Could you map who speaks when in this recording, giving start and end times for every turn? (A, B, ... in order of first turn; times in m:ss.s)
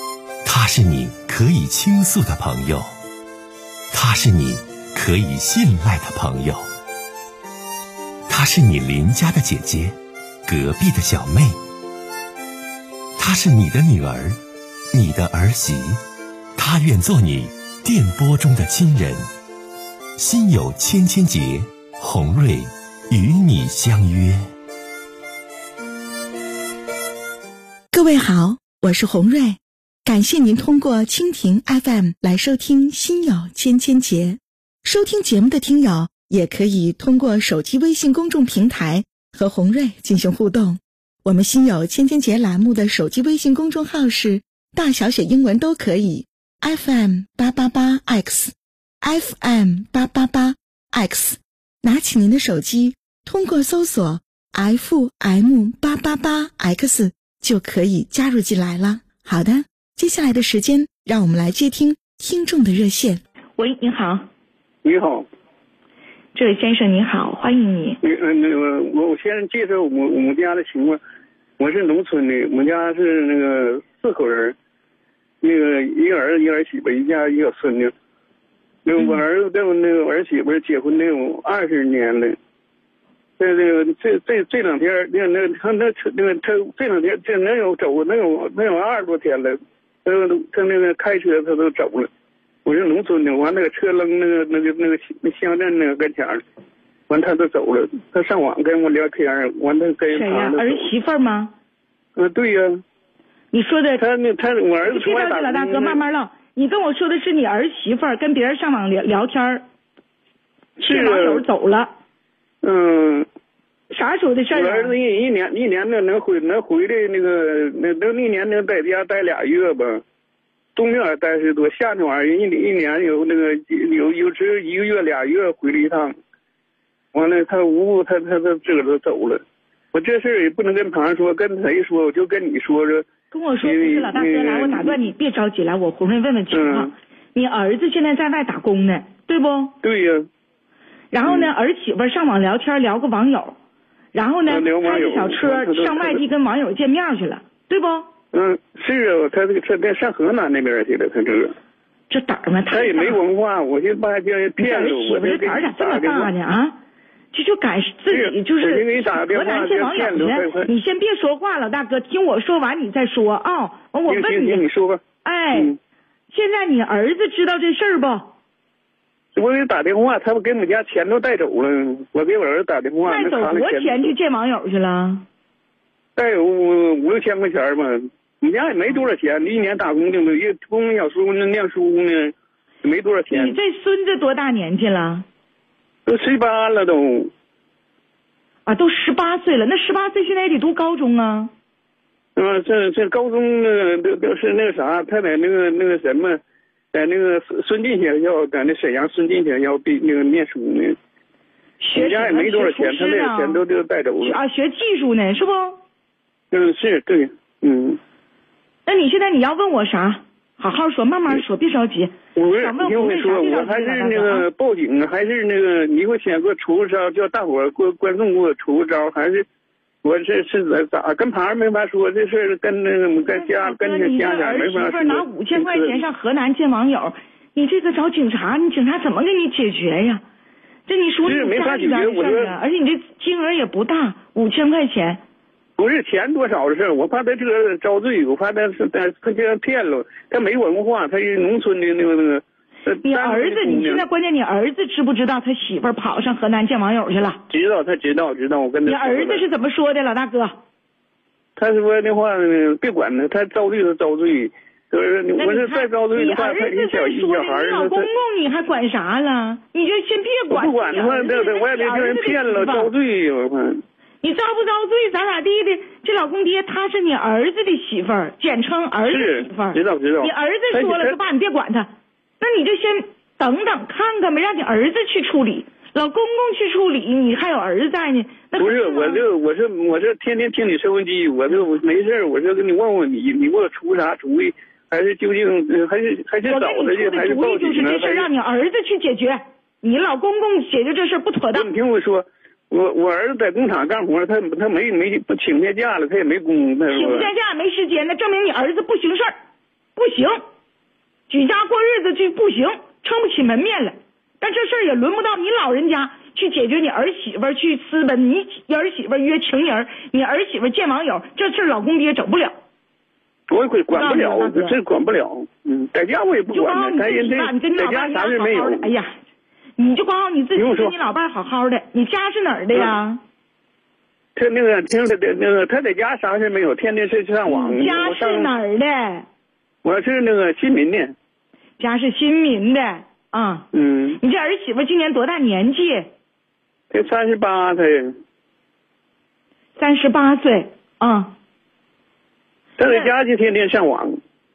0:00.4-0:02.9 A
0:03.9-0:06.6 A
0:08.3-0:11.6 A
0:13.2-0:14.4 A
0:14.9-0:16.0 A
0:16.6-0:19.2 A
0:20.2-0:24.4 A
0:27.9-1:03.2 B
1:03.6-1:04.3 C
1:04.8-1:05.3 D
1:06.3-1:08.0 C
1:08.0-1:11.0 D
1:11.6-1:14.6 D
1:15.4-1:17.9 D
1:18.8-1:22.4 D
1:23.4-1:32.1 D
1:32.6-1:36.4 D
1:37.1-1:40.9 D
1:40.1-1:41.5 C
1:42.2-1:42.8 D
1:43.5-1:44.0 C
1:44.0-1:46.0 D
1:44.8-1:49.6 C
1:50.8-1:51.9 C
1:50.9-1:51.4 D
1:52.6-1:53.3 D
1:53.9-1:54.9 C
1:54.5-2:00.0 D
2:00.8-2:06.2 D
2:07.1-2:13.1 D
2:13.3-2:19.8 C
2:13.6-2:15.0 D
2:16.5-2:16.9 D
2:19.8-2:20.3 D
2:21.1-2:23.6 C
2:21.2-2:21.5 D
2:24.1-2:28.1 C
2:24.5-2:26.2 D
2:28.3-2:31.5 D
2:32.1-2:33.2 C
2:32.7-2:36.3 D
2:34.6-2:36.8 C
2:37.3-2:44.6 C
2:38.1-2:40.7 D
2:44.1-2:45.0 D
2:45.2-2:45.8 C
2:46.3-2:48.3 C
2:49.3-2:54.1 D
2:53.0-2:55.2 C
2:56.2-3:03.6 D
3:03.3-3:05.2 C
3:06.1-3:07.3 D
3:08.7-3:11.5 C
3:12.4-3:16.4 D
3:16.9-3:21.0 D
3:21.8-3:23.6 C
3:21.9-3:24.4 D
3:24.2-3:25.8 C
3:26.5-3:28.0 D
3:28.8-3:34.5 C
3:32.4-3:39.4 D
3:40.0-3:46.0 D
3:43.2-3:50.2 C
3:50.9-3:55.2 C
3:51.2-3:52.6 D
3:55.8-4:04.0 D
4:03.0-4:07.4 C
4:07.5-4:09.5 D
4:08.9-4:10.6 C
4:11.6-4:18.1 D
4:15.4-4:22.9 C
4:20.5-4:23.8 D
4:24.2-4:31.9 C
4:29.0-4:31.1 D
4:32.4-4:39.2 C
4:38.6-4:48.3 D
4:46.4-4:51.7 C
4:51.5-4:57.3 D
4:56.9-4:59.3 C
5:00.0-5:00.4 C
5:01.3-5:12.5 C
5:13.5-5:18.9 D
5:13.9-5:14.8 C
5:16.5-5:19.1 C
5:19.8-5:23.2 C
5:20.6-5:20.9 D
5:24.4-5:28.5 D
5:27.4-5:29.2 C
5:29.8-5:31.1 D
5:31.8-5:36.1 C
5:33.7-5:34.2 D
5:36.9-5:38.1 D
5:39.8-5:41.3 C
5:42.8-5:44.2 D
5:42.8-5:43.1 C